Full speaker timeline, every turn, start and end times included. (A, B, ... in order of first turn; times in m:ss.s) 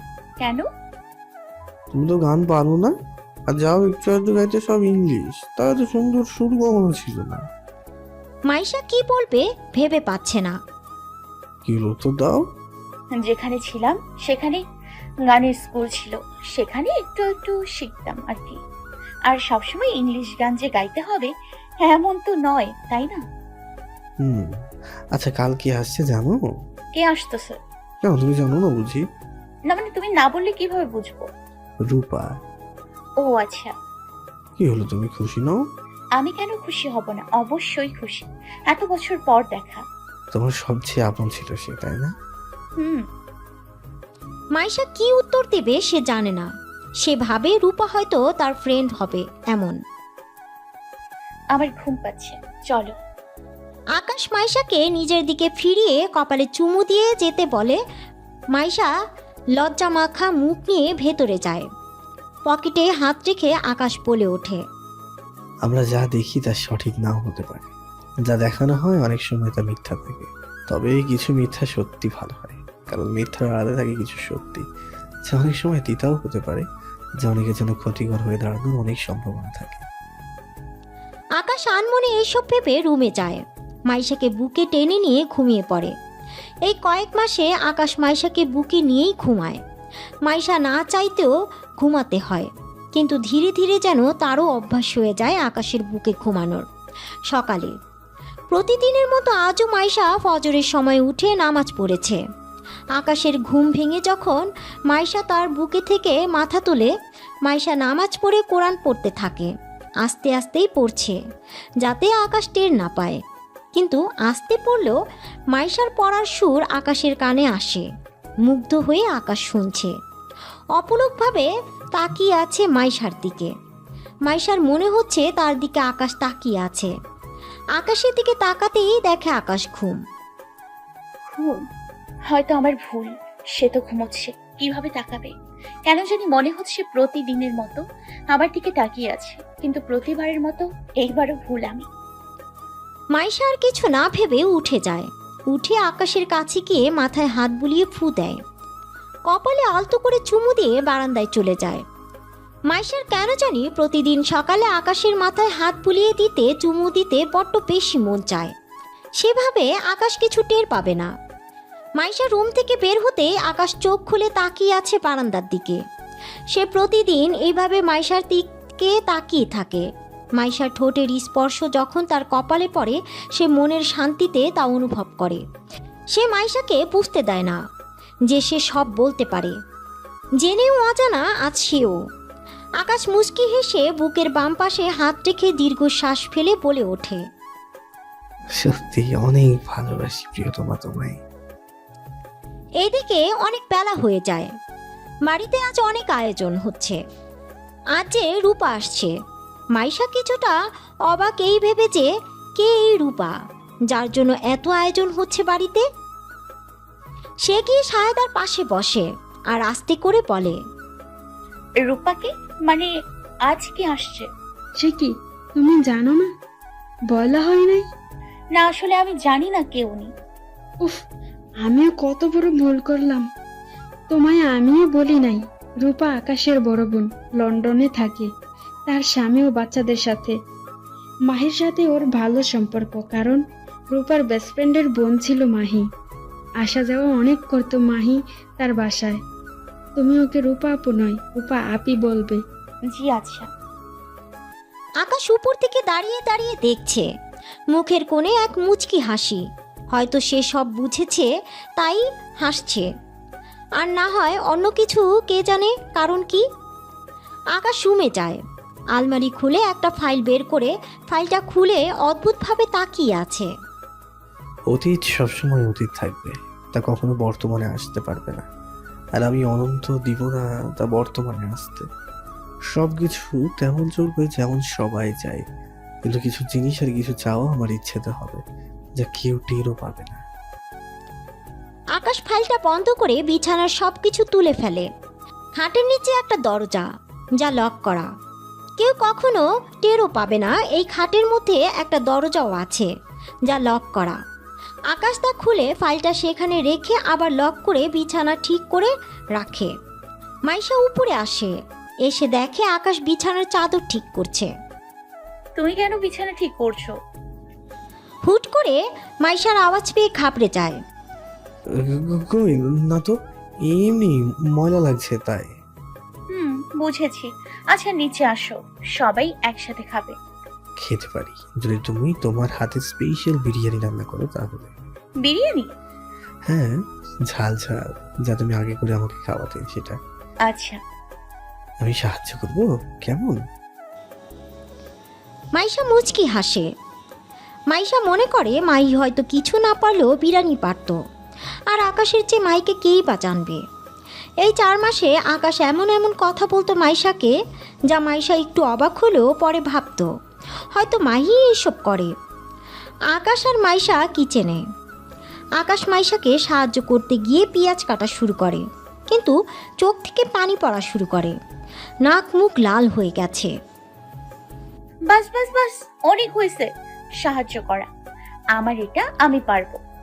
0:00.4-0:00.7 A
0:01.9-0:02.9 B
0:03.5-0:07.5 B
0:08.5-0:10.6 C
0:11.7-0:12.4 B
0:13.2-0:14.6 A
0:15.3-0:18.6 A
0:19.3-0:21.3 A
0:21.8-0:23.2 A
0:24.2-0:24.5 B
0:25.1-0:26.5 B
0:27.0-0:27.6 A
0:28.0-0:29.0 B
0:29.7-0:31.3 A
0:31.8-0:32.4 B
0:33.2-0:33.7 A
0:34.6-0:35.6 B
0:36.2-0:39.8 A
0:40.3-0:42.1 B
0:44.6-0:46.5 C
0:47.0-0:49.8 C
0:51.5-0:52.9 A
0:54.0-0:57.8 C
0:58.5-0:58.9 C
0:59.6-1:01.7 C
1:02.5-1:04.6 C
1:05.6-1:07.7 B
1:08.3-1:14.7 B
1:15.3-1:16.7 B
1:17.2-1:19.8 B
1:21.4-1:25.9 C
1:26.7-1:29.6 C
1:30.2-1:36.6 C
1:37.3-1:37.7 C
1:38.5-1:42.2 C
1:43.0-1:46.9 C
1:47.4-1:49.5 C
1:50.0-1:51.2 C
1:51.8-1:53.2 C
1:53.7-1:55.0 C
1:55.5-1:57.9 C
1:58.5-1:59.9 C
2:00.8-2:03.5 C
2:04.3-2:06.9 C
2:07.8-2:10.0 C
2:11.3-2:11.6 A
2:12.3-2:15.3 A
2:15.9-2:17.8 A
2:18.3-2:21.9 A
2:23.1-2:28.4 C
2:29.3-2:31.8 C
2:32.7-2:38.5 C
2:39.2-2:41.1 C
2:42.0-2:45.8 C
2:46.5-2:49.9 C
2:50.4-2:55.4 C
2:56.1-2:57.6 C
2:58.3-2:59.6 C
3:00.4-3:02.0 C
3:02.8-3:07.2 C
3:08.6-3:11.2 B
3:12.8-3:14.5 C
3:15.3-3:17.0 C
3:18.0-3:19.2 C
3:19.7-3:23.3 C
3:23.9-3:25.8 C
3:27.4-3:30.6 C
3:31.8-3:32.9 A
3:33.5-3:34.3 A
3:34.8-3:36.3 D
3:37.1-3:37.9 D
3:38.5-3:40.1 A
3:41.6-3:43.3 D
3:44.1-3:48.3 D
3:48.9-3:50.4 D
3:51.3-3:55.9 D
3:56.6-3:59.2 D
4:00.0-4:02.4 D
4:02.9-4:03.5 A
4:05.0-4:07.1 C
4:07.7-4:12.9 C
4:13.8-4:16.4 C
4:17.6-4:18.4 C
4:19.0-4:23.5 C
4:24.7-4:28.5 B
4:29.2-4:31.9 B
4:32.7-4:35.4 B
4:36.0-4:38.4 B
4:39.0-4:40.2 B
4:42.0-4:44.9 C
4:45.6-4:48.1 C
4:48.8-4:52.9 C
4:53.5-4:54.2 C
4:54.9-4:59.7 C
5:00.5-5:01.5 C
5:02.0-5:04.5 C
5:05.6-5:06.9 A
5:08.2-5:10.8 C
5:11.8-5:13.2 B
5:13.7-5:15.5 B
5:16.3-5:20.2 A
5:20.8-5:24.7 B
5:25.2-5:25.7 A
5:26.5-5:26.8 B
5:27.3-5:30.0 B
5:30.5-5:30.8 A
5:31.8-5:33.4 B
5:35.6-5:36.7 C
5:37.7-5:41.0 C
5:41.7-5:43.6 C
5:44.4-5:47.4 C
5:47.9-5:50.1 C
5:50.7-5:52.1 C
5:53.1-5:54.6 C
5:55.6-6:01.4 C
6:02.1-6:03.5 C
6:05.1-6:06.7 A
6:07.2-6:07.9 A
6:08.6-6:09.8 A